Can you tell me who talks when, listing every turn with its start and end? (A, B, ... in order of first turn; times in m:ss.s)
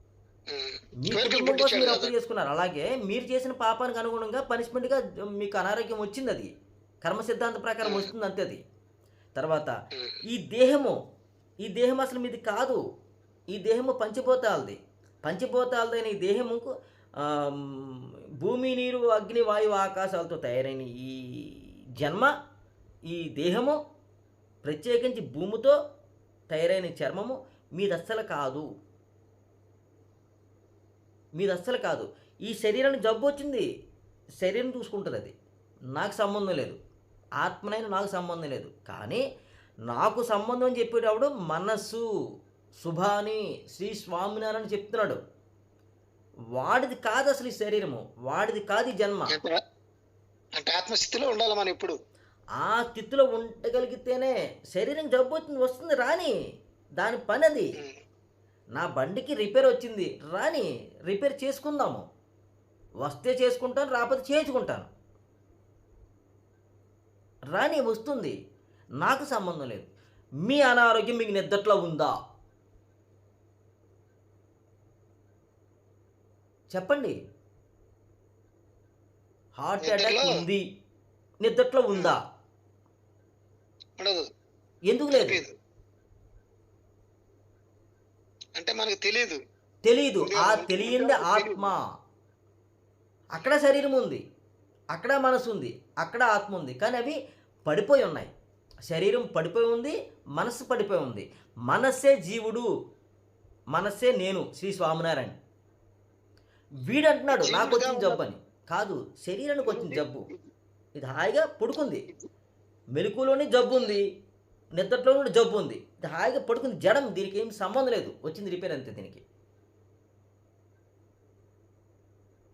0:00.5-0:02.1 A
0:01.0-0:06.5 B
0:07.0-0:08.6 B
0:07.8-0:08.1 A
0:09.4-0:09.7 B
0:10.3-0:10.9 B
0:11.6-0:12.8 B
0:13.5-0:22.3 B
0:23.1-0:23.8 B
0:24.6-0:25.7 B
0:26.5-0:28.7 B
0:31.3-0:33.6 B
0:34.4-0:35.3 B
0:35.9-0:36.8 B
0:37.4-0:39.2 B
0:39.9-0:42.0 B
0:42.8-0:45.2 B
0:46.6-0:49.4 B
0:49.3-0:49.6 A
0:50.6-0:52.0 A
0:52.6-0:56.3 B
0:57.0-0:57.7 B
0:58.8-1:02.0 B
1:03.0-1:04.9 B
1:07.5-1:08.3 B
1:09.0-1:09.9 B
1:10.4-1:12.2 B
1:16.7-1:17.2 B
1:19.6-1:20.6 B
1:19.8-1:20.3 A
1:21.4-1:22.2 B
1:21.9-1:22.2 A
1:24.0-1:24.2 A
1:24.9-1:25.4 B
1:25.1-1:25.5 A
1:28.6-1:29.4 A
1:29.8-1:31.8 B
1:30.2-1:31.7 A
1:33.3-1:34.2 B
1:34.9-1:38.3 B
1:38.9-1:42.7 B
1:43.7-1:45.4 B
1:46.8-1:50.3 B
1:47.3-1:48.2 A
1:49.6-1:50.4 A
1:51.0-1:52.0 B
1:52.9-1:54.0 B
1:54.8-1:59.2 B